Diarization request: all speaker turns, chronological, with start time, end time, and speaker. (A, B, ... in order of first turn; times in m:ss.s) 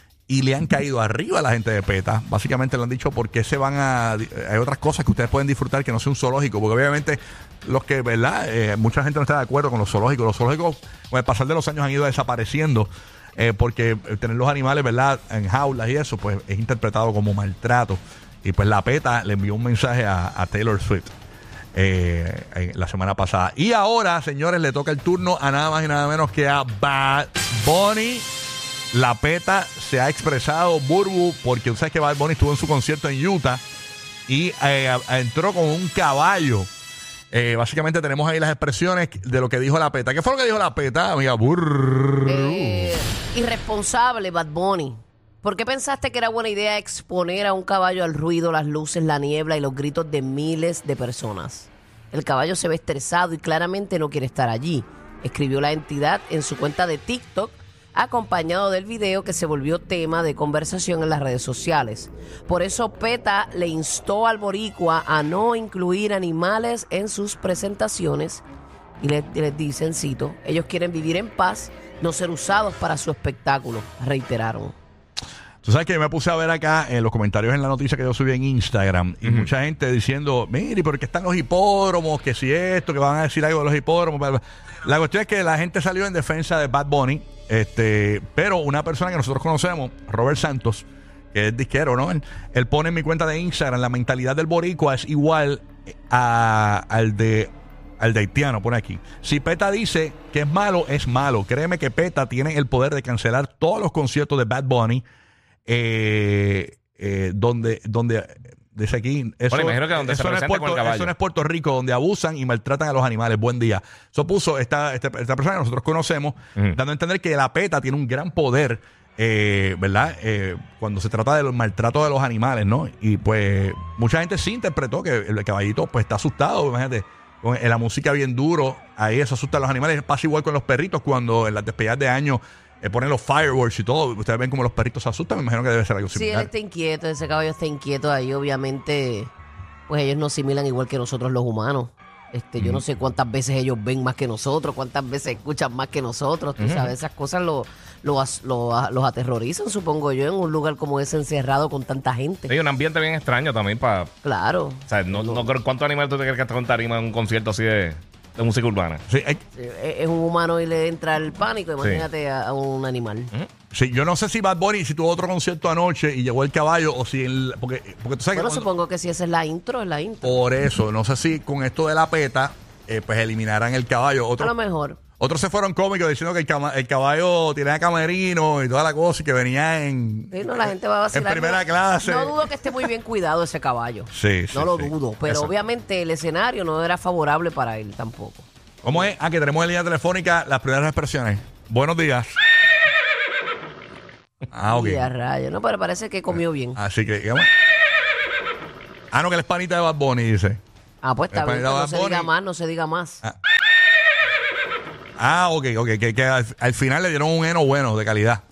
0:00.3-0:21.1 A
0:21.7-0:28.3 A
0:28.9-0:33.6 A
0:34.3-0:36.7 A
0:37.3-0:42.9 A
0:42.2-1:08.4 B
1:09.0-1:14.8 B
1:15.6-1:45.0 A
1:19.2-1:19.5 C
1:45.6-2:16.5 A
1:49.5-1:51.1 C
2:16.1-2:19.3 B
2:19.9-2:32.5 B
2:26.6-2:26.9 C
2:32.5-2:34.1 C
2:34.2-2:35.5 B
2:34.9-2:39.0 C
2:39.1-2:39.4 A
2:39.6-2:43.3 B
2:41.8-2:42.0 C
2:43.7-2:48.6 A
2:48.3-2:50.4 B
2:50.2-2:54.5 A
2:54.4-2:55.0 B
2:55.2-3:02.8 A
3:00.3-3:09.1 B
3:04.1-3:05.5 A
3:08.8-3:12.4 A
3:14.5-3:15.1 A
3:14.7-3:16.8 B
3:16.8-3:17.5 A
3:19.1-3:20.6 A
3:21.0-3:23.2 B
3:21.3-3:22.3 A
3:25.2-3:28.4 A